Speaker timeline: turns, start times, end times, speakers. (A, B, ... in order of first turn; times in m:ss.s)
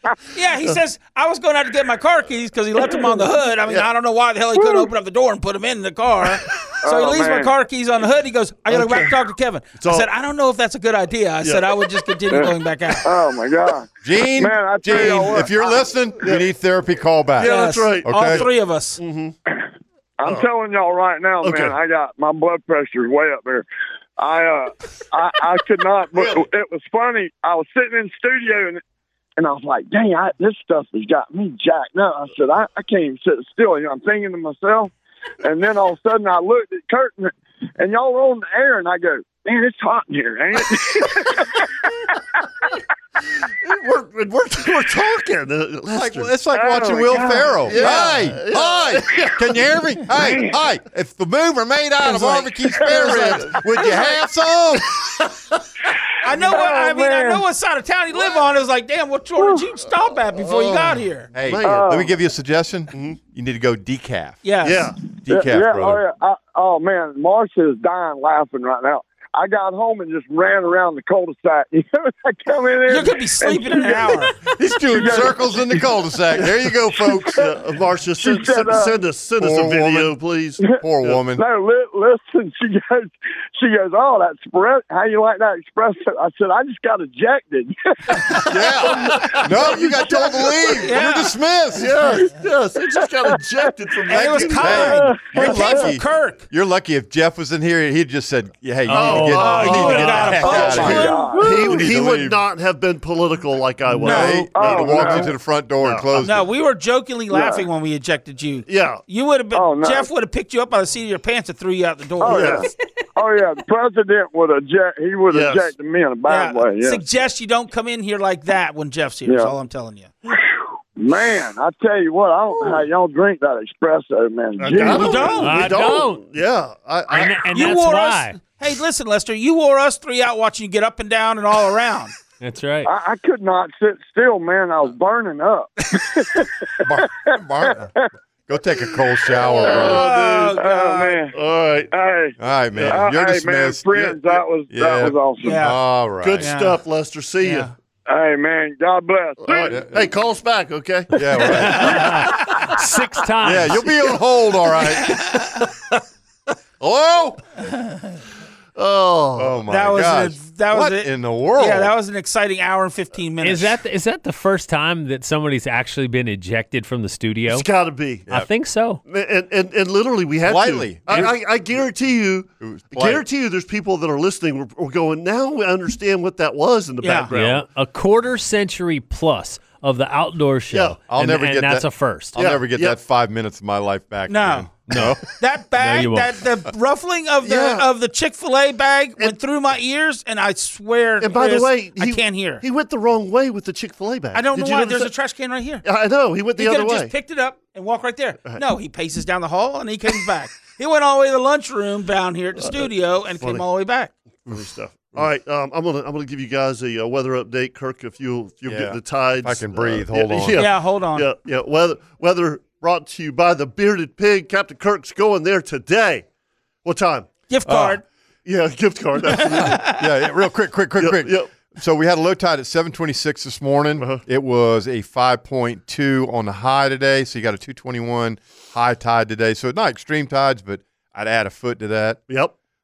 0:00.4-0:13.1 A
0:02.9-0:03.2 B
0:04.6-0:04.9 B
0:06.8-0:07.5 B
0:08.7-0:09.1 C
0:09.8-0:10.1 C
0:11.4-0:11.7 C
0:12.3-0:15.8 B
0:14.0-0:18.4 D
0:16.2-0:16.5 C
0:17.4-0:19.4 C
0:17.4-0:19.0 A
0:20.2-0:23.7 B
0:21.4-0:21.8 C
0:24.2-0:28.8 B
0:26.2-0:26.5 C
0:29.4-0:42.2 B
0:43.5-0:46.3 C
0:45.9-0:55.2 D
0:46.5-0:48.1 B
0:47.6-0:49.6 C
0:50.2-0:50.5 B
0:52.0-0:54.1 C
0:52.7-0:53.3 B
0:55.1-0:55.6 C
0:56.2-1:01.3 A
0:56.3-0:57.5 B
1:00.4-1:02.1 C
1:01.3-1:04.4 D
1:01.6-1:02.1 B
1:02.9-1:03.2 C
1:04.4-1:04.9 A
1:04.6-1:05.0 C
1:05.2-1:06.0 D
1:05.3-1:15.8 B
1:12.9-1:14.4 A
1:14.6-1:17.5 D
1:17.1-1:17.5 B
1:17.2-1:21.2 C
1:18.2-1:19.0 B
1:19.4-1:20.2 D
1:20.8-1:21.4 D
1:21.3-1:28.7 B
1:28.1-1:30.9 C
1:28.4-1:31.9 D
1:29.5-1:30.4 B
1:30.8-1:31.3 A
1:31.7-1:35.1 C
1:34.1-1:36.4 A
1:34.1-1:42.4 D
1:34.9-1:35.9 B
1:38.9-1:40.4 E
1:38.9-1:46.2 C
1:39.4-1:41.4 A
1:40.4-1:41.8 B
1:44.0-1:46.5 D
1:44.0-1:44.4 A
1:44.4-1:45.3 B
1:46.2-1:52.6 A
1:47.3-1:47.7 B
1:48.7-1:49.0 C
1:49.5-1:50.1 B
1:52.2-1:57.0 B
1:52.2-1:52.7 C
1:55.3-1:55.7 C
1:56.3-2:00.1 A
1:59.2-1:59.6 B
2:01.0-2:05.5 B
2:04.6-2:07.5 C
2:04.8-2:05.5 A
2:05.4-2:06.2 E
2:07.1-2:08.4 E
2:07.5-2:12.1 A
2:12.4-2:12.9 E
2:12.8-2:18.1 B
2:16.8-2:17.9 D
2:18.5-2:20.1 D
2:19.4-2:20.0 B
2:19.5-2:20.6 C
2:19.8-2:21.2 A
2:20.5-2:21.4 B
2:21.3-2:21.9 C
2:21.9-2:25.7 B
2:22.4-2:26.5 D
2:22.7-2:23.0 C
2:25.4-2:25.8 A
2:26.2-2:27.7 C
2:26.4-2:26.8 A
2:27.4-2:27.7 A
2:28.1-2:29.8 B
2:29.4-2:32.1 C
2:29.7-2:30.1 D
2:31.1-2:32.4 D
2:31.5-2:33.8 E
2:33.4-2:35.5 D
2:36.8-2:37.4 D
2:38.8-2:39.6 C
2:39.4-2:41.9 D
2:39.7-2:43.8 A
2:43.4-2:47.7 E
2:47.5-2:48.3 C
2:48.3-2:49.0 E
2:49.0-2:57.7 C
2:50.4-2:51.3 D
2:52.6-2:53.2 D
2:57.0-2:57.3 A
2:57.3-3:02.3 E
3:00.7-3:01.0 C
3:01.1-3:05.2 D
3:02.4-3:03.0 C
3:04.3-3:04.7 A
3:04.9-3:06.4 E
3:05.4-3:12.6 A
3:07.4-3:07.9 C
3:11.2-3:15.1 C
3:14.3-3:15.8 A
3:15.8-3:17.1 C
3:16.6-3:24.1 A
3:22.6-3:23.6 C
3:24.5-3:36.3 C
3:28.6-3:30.6 D
3:30.6-3:31.3 A
3:36.8-3:37.3 C
3:37.5-3:38.0 A
3:37.6-3:38.0 D
3:38.4-3:39.8 C
3:39.3-3:40.0 A
3:39.4-3:52.2 D
3:41.0-3:41.5 C
3:44.0-3:44.2 C
3:52.3-3:52.6 C